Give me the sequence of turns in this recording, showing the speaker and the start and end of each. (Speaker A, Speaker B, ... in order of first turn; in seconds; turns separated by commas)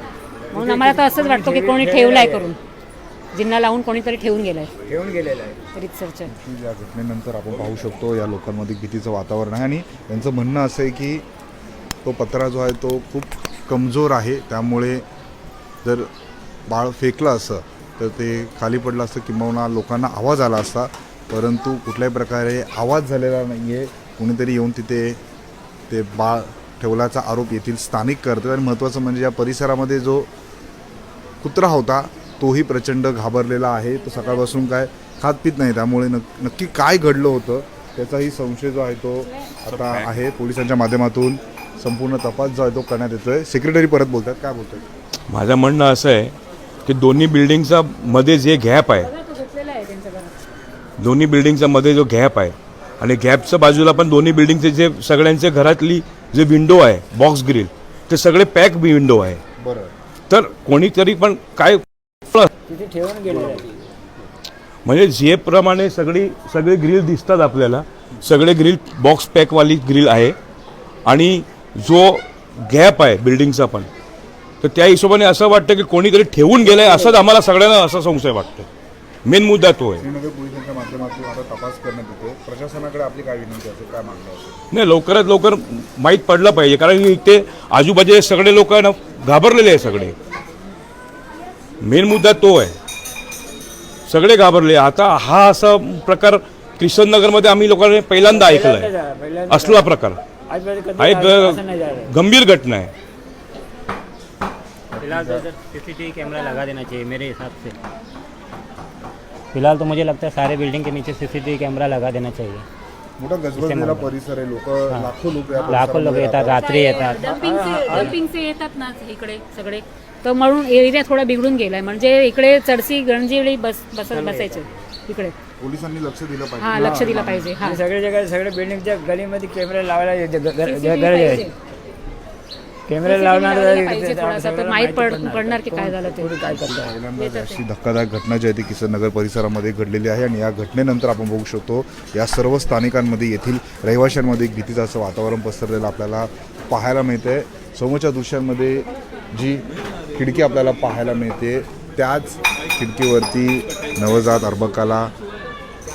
Speaker A: 0.5-2.5, Speaker B: 0.5-2.6, Speaker B: 3.3-4.7, Speaker A: 4.9-5.6, Speaker B: 5.8-6.3, Speaker C: 6.3-11.2, Speaker C: 12.0-15.1, Speaker C: 15.8-16.1, Speaker C: 16.7-25.2, Speaker C: 25.9-30.3, Speaker C: 31.4-44.8, Speaker D: 39.7-40.2, Speaker D: 45.3-46.3, Speaker D: 46.9-49.1, Speaker B: 49.3-50.2, Speaker D: 51.0-59.4, Speaker C: 59.6-59.9, Speaker D: 60.3-62.5, Speaker A: 62.7-63.8, Speaker D: 64.8-70.4, Speaker D: 71.1-73.9, Speaker D: 74.6-78.7, Speaker D: 79.2-80.1, Speaker C: 80.0-84.6, Speaker D: 84.7-90.2, Speaker D: 91.8-92.8, Speaker D: 94.1-98.9, Speaker A: 98.2-99.9, Speaker D: 99.5-100.2, Speaker A: 100.5-102.1, Speaker D: 101.0-102.9, Speaker C: 104.9-105.5, Speaker E: 105.0-107.8, Speaker E: 109.5-112.7, Speaker C: 113.2-116.7, Speaker E: 113.5-114.1, Speaker A: 115.5-115.9, Speaker E: 115.7-117.3, Speaker B: 116.5-125.3, Speaker A: 117.2-118.1, Speaker E: 124.1-124.9, Speaker C: 125.6-127.5, Speaker B: 126.6-127.8, Speaker A: 126.8-131.5, Speaker B: 130.6-131.5, Speaker A: 132.9-137.0, Speaker B: 133.0-136.4, Speaker C: 136.5-155.1, Speaker B: 137.2-137.6